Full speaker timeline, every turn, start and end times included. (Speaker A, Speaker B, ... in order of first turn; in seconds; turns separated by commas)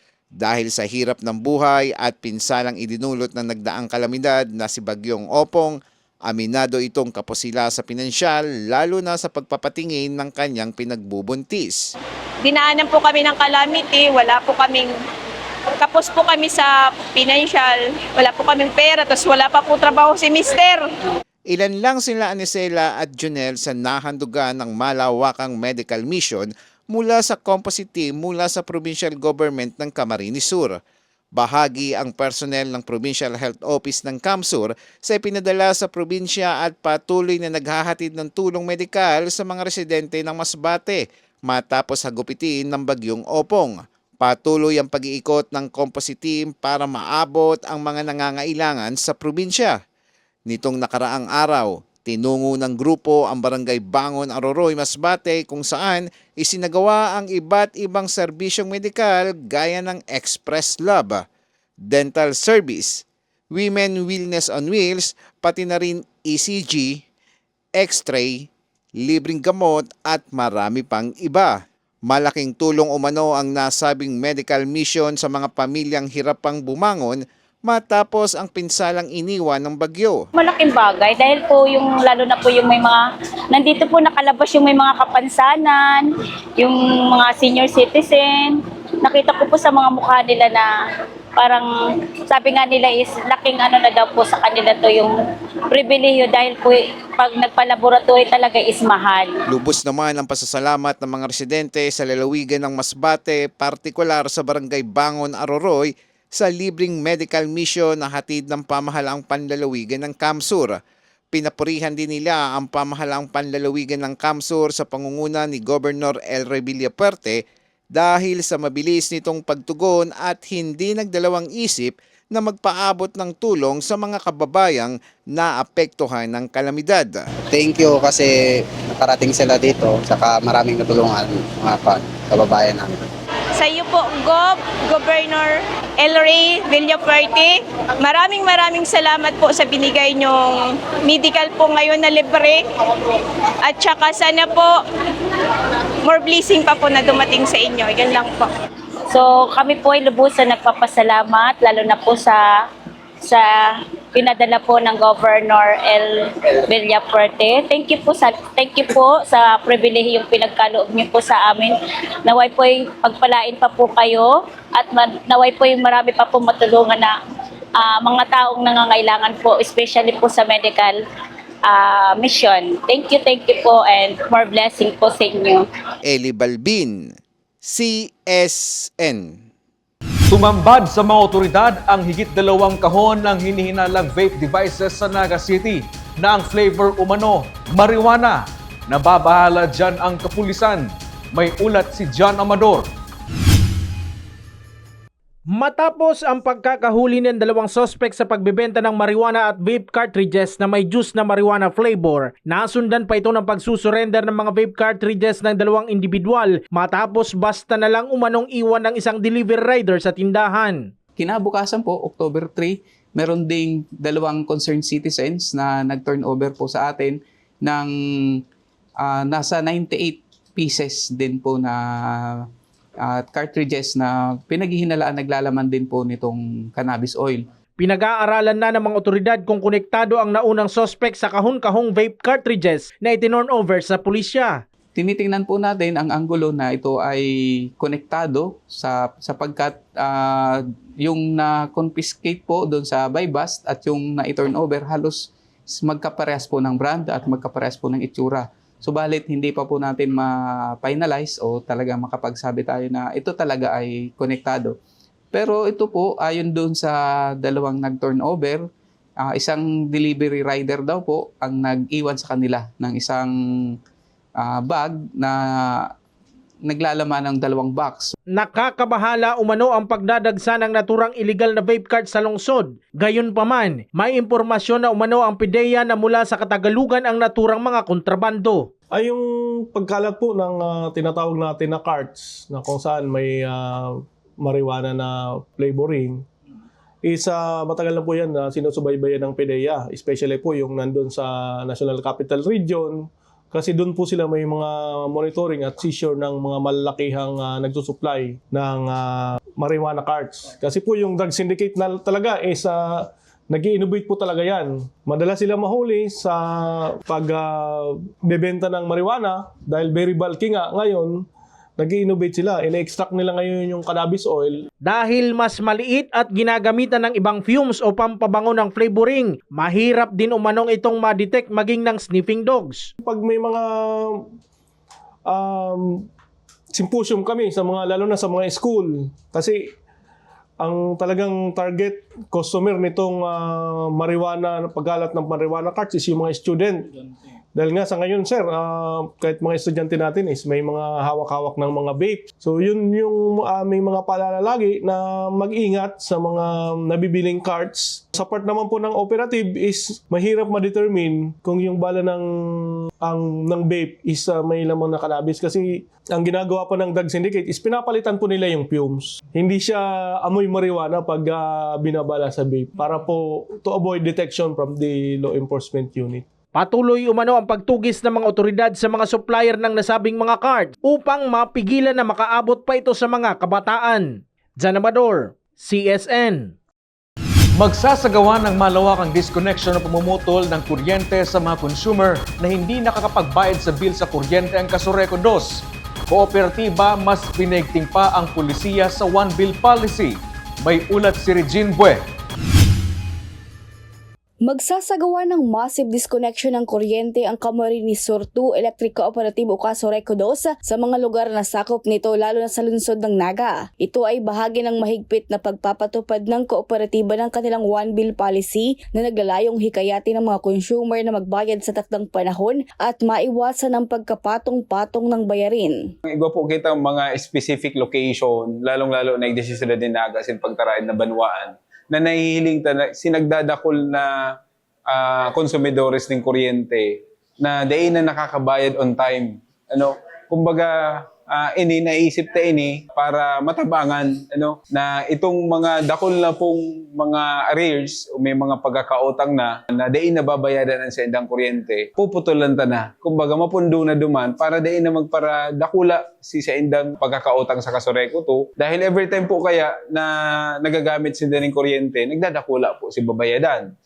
Speaker A: 0.4-5.8, Speaker A: 6.3-11.8, Speaker B: 12.4-14.9, Speaker B: 15.8-20.9, Speaker A: 21.5-30.8, Speaker A: 31.4-49.8, Speaker A: 50.5-61.2, Speaker A: 61.9-67.0, Speaker A: 67.8-68.5, Speaker A: 69.0-71.5, Speaker A: 72.1-77.2, Speaker A: 77.7-80.2, Speaker C: 80.3-86.0, Speaker C: 86.6-90.7, Speaker C: 91.4-91.7, Speaker C: 92.3-95.1, Speaker C: 95.7-99.3, Speaker A: 99.5-110.8, Speaker A: 111.3-117.4, Speaker A: 117.9-127.2, Speaker D: 127.5-133.0, Speaker B: 133.6-142.6, Speaker B: 143.6-144.8, Speaker B: 146.0-148.5, Speaker C: 149.1-152.6, Speaker C: 153.2-167.1, Speaker C: 167.8-171.0, Speaker C: 171.7-175.7, Speaker A: 176.0-177.1, Speaker A: 177.6-179.4, Speaker E: 180.3-192.9, Speaker F: 195.5-210.9, Speaker G: 211.2-218.4, Speaker G: 219.0-222.5, Speaker G: 223.0-227.5, Speaker F: 227.8-234.6, Speaker G: 234.9-254.7, Speaker G: 255.3-258.6, Speaker G: 259.2-263.3, Speaker G: 264.4-265.9, Speaker G: 266.6-268.1, Speaker F: 268.3-278.7, Speaker H: 278.9-286.2, Speaker H: 287.0-311.2, Speaker H: 311.8-314.5, Speaker F: 314.8-322.9, Speaker H: 323.0-324.3, Speaker H: 325.3-326.1, Speaker H: 326.7-329.7, Speaker H: 330.6-336.9, Speaker H: 337.5-352.2, Speaker H: 353.0-366.2, Speaker F: 366.5-376.5, Speaker E: 377.6-392.0, Speaker I: 394.4-415.8, Speaker J: 416.1-424.2, Speaker J: 424.9-430.7, Speaker J: 431.2-453.7